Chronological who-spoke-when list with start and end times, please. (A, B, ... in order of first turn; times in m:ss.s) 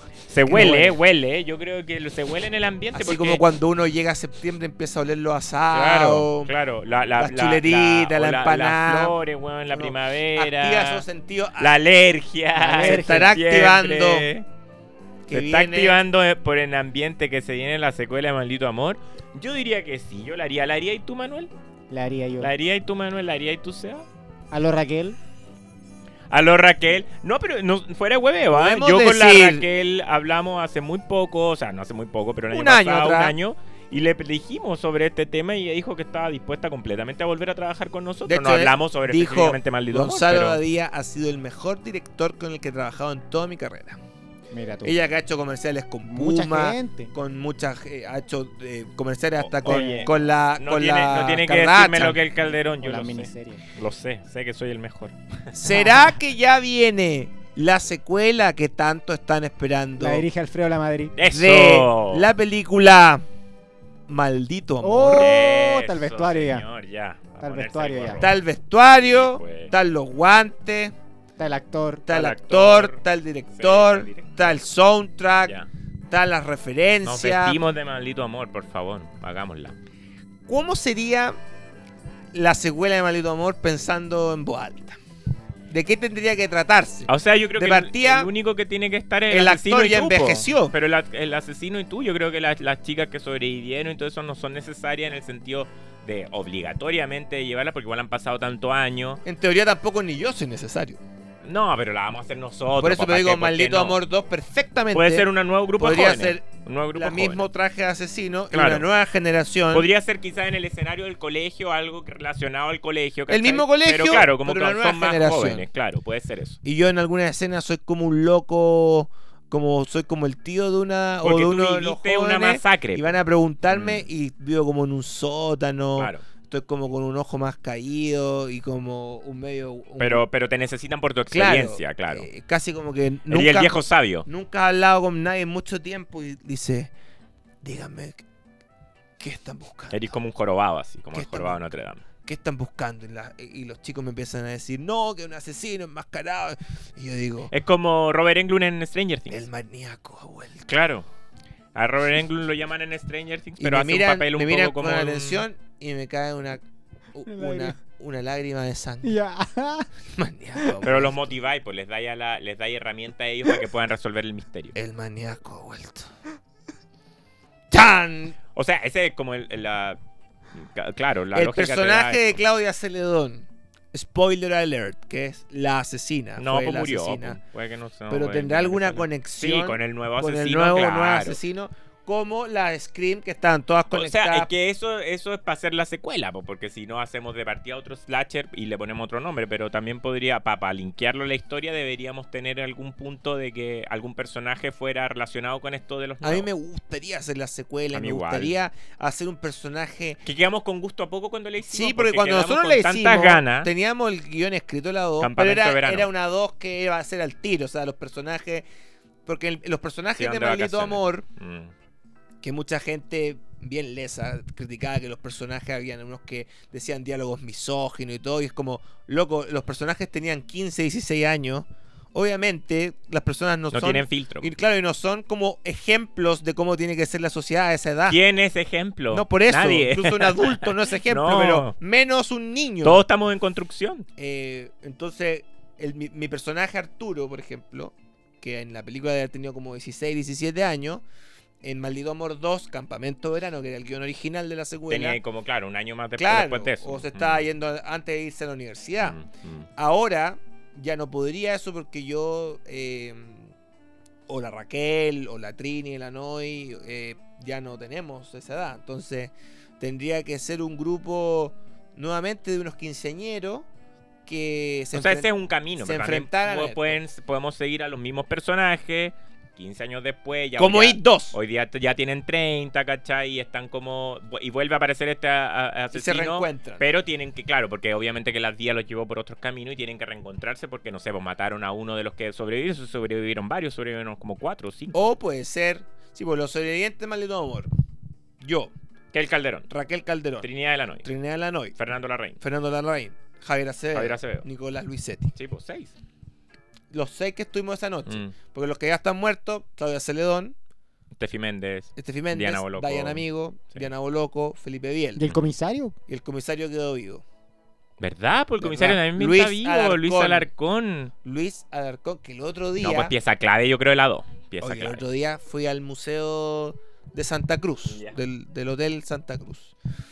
0:00.3-0:03.4 A
0:00.5-0:00.9 B
0:00.5-0:00.9 C
0:02.9-0:06.5 C
0:05.7-0:11.0 A
0:07.2-0:09.2 C
0:09.7-0:11.8 C
0:11.6-0:14.5 A
0:12.6-0:13.3 B
0:12.8-0:14.3 C
0:15.3-0:16.0 C
0:15.3-0:21.5 A
0:21.9-0:22.5 B
0:22.4-0:24.0 A
0:24.5-0:25.2 B
0:26.3-0:40.6 A
0:28.5-0:29.6 C
0:32.5-0:33.4 C
0:38.3-0:44.0 C
0:44.5-0:45.0 B
0:44.8-0:52.2 C
0:46.0-0:47.1 B
0:49.4-0:55.2 A
0:49.6-0:50.1 B
0:52.8-0:53.6 B
0:55.5-1:00.2 C
0:55.7-0:56.1 B
1:00.0-1:01.1 B
1:01.2-1:02.3 A
1:01.3-1:03.2 C
1:04.1-1:05.3 C
1:04.8-1:06.6 B
1:05.1-1:08.4 A
1:07.4-1:08.2 B
1:08.2-1:11.0 C
1:09.0-1:09.7 A
1:11.4-1:12.1 B
1:12.1-1:13.0 A
1:12.1-1:15.6 C
1:13.6-1:14.6 A
1:16.1-1:17.6 C
1:17.0-1:19.8 A
1:20.5-1:21.4 C
1:22.3-1:25.0 C
1:25.7-1:28.3 C
1:27.1-1:39.2 A
1:29.3-1:30.7 C
1:39.2-1:41.0 C
1:41.4-1:44.0 A
1:42.8-1:45.3 C
1:44.9-1:47.5 A
1:45.8-1:49.9 C
1:48.5-1:48.9 A
1:49.7-1:56.6 A
1:53.3-1:55.7 C
1:56.6-2:10.2 C
2:01.2-2:03.1 A
2:03.7-2:04.1 A
2:06.0-2:06.2 A
2:10.0-2:12.3 A
2:11.3-2:16.9 C
2:13.3-2:14.3 A
2:17.6-2:18.2 C
2:19.2-2:20.1 C
2:19.9-2:22.0 A
2:21.1-2:21.7 C
2:22.2-2:27.5 C
2:27.5-2:29.5 A
2:29.3-2:30.7 C
2:30.7-2:31.1 A
2:31.8-2:35.4 A
2:33.6-2:36.6 C
2:37.1-2:39.1 C
2:37.3-2:37.8 B
2:39.0-2:39.9 B
2:40.1-2:41.3 C
2:40.8-2:44.7 A
2:44.7-2:46.1 C
2:47.7-2:48.4 C
2:48.6-2:50.0 A
2:50.5-2:52.4 A
2:51.3-2:57.4 C
2:56.4-3:01.4 A
2:58.1-3:04.5 C
3:03.9-3:16.5 A
3:16.2-3:20.2 C
3:17.9-3:18.6 A
3:20.2-3:23.7 A
3:21.6-3:28.6 C
3:25.2-3:26.1 A
3:29.3-3:31.2 C
3:30.2-3:31.7 A
3:32.4-3:48.2 C
3:43.7-3:44.5 A
3:48.1-3:51.8 A
3:49.1-3:53.0 C
3:52.8-3:54.1 A
3:54.2-4:01.0 C
4:01.6-4:05.2 C
4:04.9-4:07.4 A
4:06.2-4:09.2 C
4:09.0-4:09.7 A
4:09.8-4:13.5 C
4:14.3-4:23.7 C
4:24.3-4:27.0 C
4:24.9-4:45.0 A
4:30.6-4:31.4 C
4:35.9-4:36.8 C
4:44.9-4:47.7 C
4:48.4-4:48.7 C
4:49.1-4:49.7 A
4:49.7-4:50.5 C
4:50.4-4:51.1 A
4:51.0-4:51.8 C
4:51.8-4:52.4 A
4:52.4-4:55.3 C
4:53.9-4:54.5 A
4:55.4-4:55.9 A
4:56.9-5:00.6 C
4:58.1-4:58.3 A
5:01.2-5:03.9 A
5:02.0-5:05.2 C
5:05.2-5:06.0 B
5:06.1-5:07.2 C
5:08.0-5:11.1 A
5:08.6-5:10.5 C
5:11.2-5:13.1 C
5:12.8-5:15.0 A
5:14.6-5:19.8 C
5:17.9-5:18.2 A